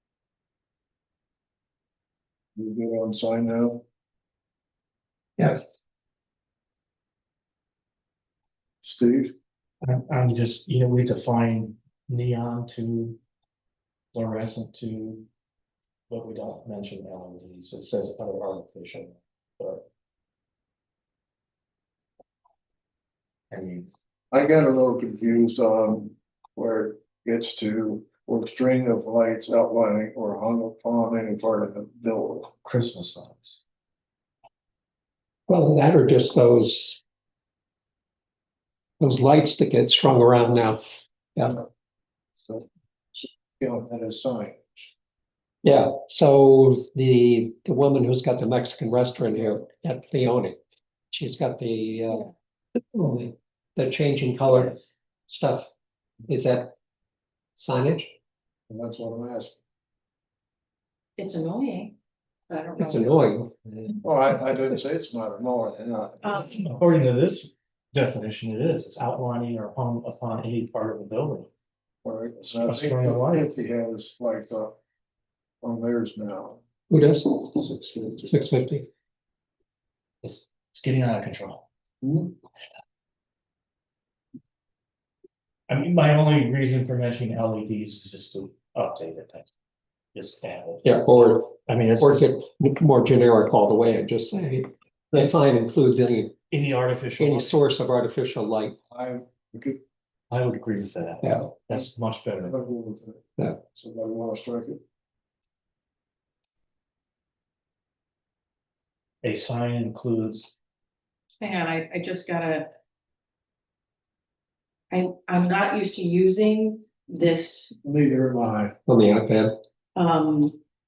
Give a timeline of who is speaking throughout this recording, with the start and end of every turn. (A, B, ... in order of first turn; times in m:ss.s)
0:02.6-0:03.8 A
0:08.8-0:09.3 A
0:09.8-0:13.2 B
0:14.1-0:15.3 B
0:16.1-0:19.8 B
0:23.5-0:23.9 B
0:24.3-0:32.5 A
0:32.6-0:33.6 B
0:35.5-0:37.0 C
0:39.0-0:41.6 C
0:42.4-0:44.9 A
0:45.6-0:50.6 C
0:51.1-0:52.3 C
0:52.9-0:55.7 C
0:54.5-0:54.9 D
0:56.3-0:56.7 C
0:57.6-0:58.1 C
0:58.7-0:59.6 A
1:01.2-1:01.9 D
1:02.5-1:03.3 D
1:02.8-1:03.6 C
1:04.0-1:06.6 A
1:06.2-1:06.6 D
1:06.6-1:11.5 B
1:12.0-1:14.8 A
1:12.5-1:13.5 B
1:15.6-1:16.6 A
1:16.9-1:17.6 C
1:17.5-1:18.4 A
1:18.2-1:18.9 C
1:20.2-1:21.6 B
1:22.0-1:22.3 A
1:25.7-1:29.5 B
1:30.1-1:30.8 B
1:30.8-1:36.4 C
1:31.6-1:32.3 B
1:36.5-1:37.5 B
1:37.2-1:38.8 C
1:38.9-1:39.8 A
1:40.3-1:42.5 B
1:41.2-1:41.5 C
1:42.4-1:44.8 A
1:49.2-1:50.5 B
1:51.4-1:52.7 D
1:54.9-1:57.7 D
1:57.8-1:58.7 A
1:58.9-1:59.6 C
2:00.0-2:00.6 D